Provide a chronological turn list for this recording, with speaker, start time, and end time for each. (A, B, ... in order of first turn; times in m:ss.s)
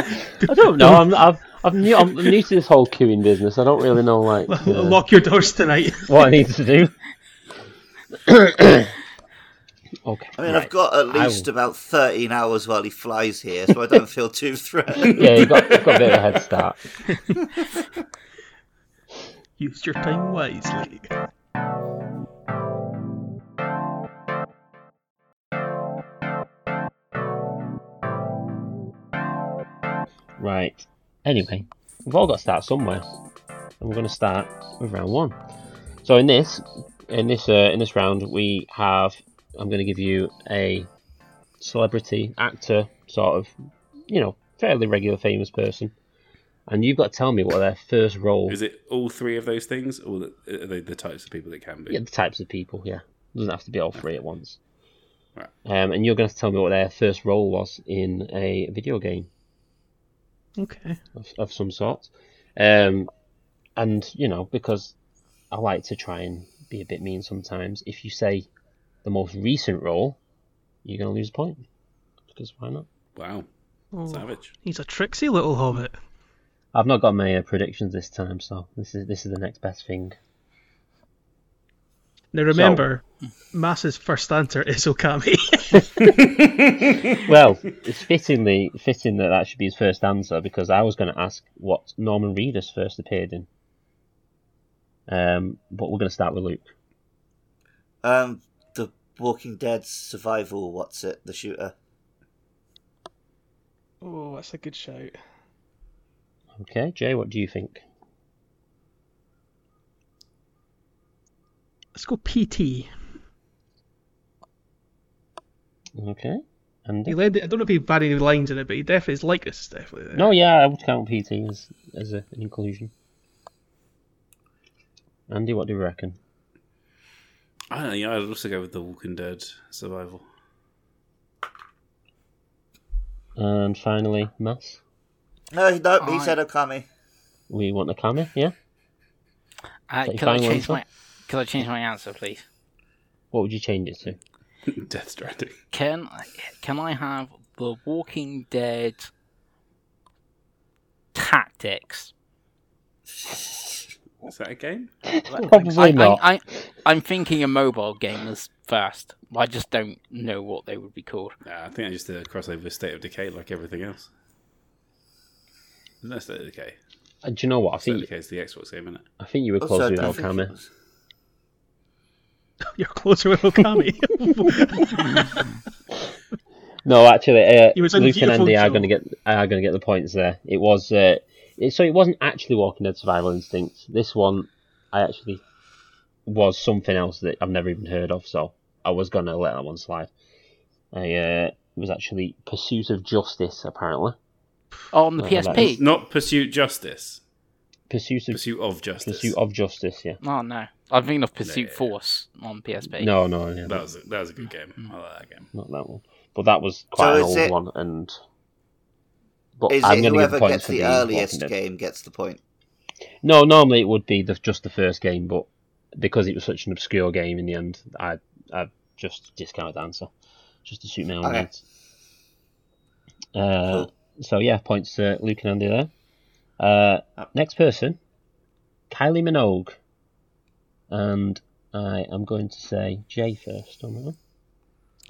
0:00.4-0:01.1 A
0:00.4-0:05.0 B
0:04.5-0:06.1 A
0:06.0-0:06.9 B
0:08.1-0:08.9 B
0:10.0-0:11.5 B
0:10.4-0:15.4 C
0:15.0-0:16.8 B
0:15.0-0:16.3 D
0:17.1-0:17.4 A
0:19.6-0:21.1 A
0:30.4-0:33.0 B
0:33.8-0:35.4 B
0:36.0-0:40.9 B
0:41.6-0:43.5 B
0:44.1-0:45.9 B
0:46.7-0:48.6 B
0:48.5-0:52.0 D
0:51.9-0:54.6 B
0:55.6-0:59.3 B
1:00.6-1:01.0 A
1:01.2-1:03.1 B
1:03.8-1:04.9 B
1:05.5-1:08.5 B
1:09.0-1:10.2 B
1:10.8-1:11.6 B
1:12.3-1:12.9 B
1:13.2-1:13.5 D
1:13.9-1:15.9 A
1:14.1-1:14.5 D
1:16.7-1:20.2 B
1:22.3-1:26.1 A
1:22.5-1:22.8 B
1:25.8-1:26.4 B
1:27.2-1:33.5 B
1:35.1-1:36.7 B
1:38.0-1:41.7 C
1:44.0-1:45.1 A
1:46.5-1:47.8 B
1:51.9-1:52.9 A
1:56.0-1:57.2 B
1:57.1-2:00.3 A
2:00.1-2:02.9 B
2:05.3-2:06.2 B
2:07.7-2:10.2 D
2:13.4-2:14.8 B
2:15.5-2:16.8 C
2:16.0-2:16.4 E
2:17.5-2:18.5 B
2:19.9-2:22.4 E
2:20.0-2:20.8 B
2:23.3-2:24.2 B
2:24.6-2:25.6 D
2:25.7-2:29.1 E
2:31.1-2:32.1 E
2:34.2-2:34.9 D
2:35.2-2:36.2 B
2:35.4-2:41.3 E
2:41.4-2:44.1 D
2:46.0-2:46.8 D
2:47.2-2:48.1 B
2:47.8-2:49.0 D
2:49.2-2:50.5 B
2:49.6-2:50.7 C
2:52.7-2:55.5 A
2:56.8-3:05.4 B
2:57.7-2:58.9 A
3:06.2-3:10.1 B
3:10.9-3:14.2 B
3:14.9-3:15.8 E
3:15.2-3:15.8 B
3:15.5-3:17.2 D
3:17.9-3:18.4 B
3:18.3-3:19.3 D
3:19.0-3:20.2 B
3:20.2-3:23.1 E
3:21.4-3:21.8 D
3:22.9-3:23.8 B
3:23.7-3:25.5 D
3:25.5-3:28.2 B
3:27.0-3:27.5 C
3:29.6-3:31.5 B
3:29.7-3:32.4 C
3:33.2-3:40.1 B
3:40.6-3:41.6 B
3:43.3-3:45.9 B
3:46.6-3:48.0 B
3:48.9-3:49.8 B
3:50.9-3:54.2 B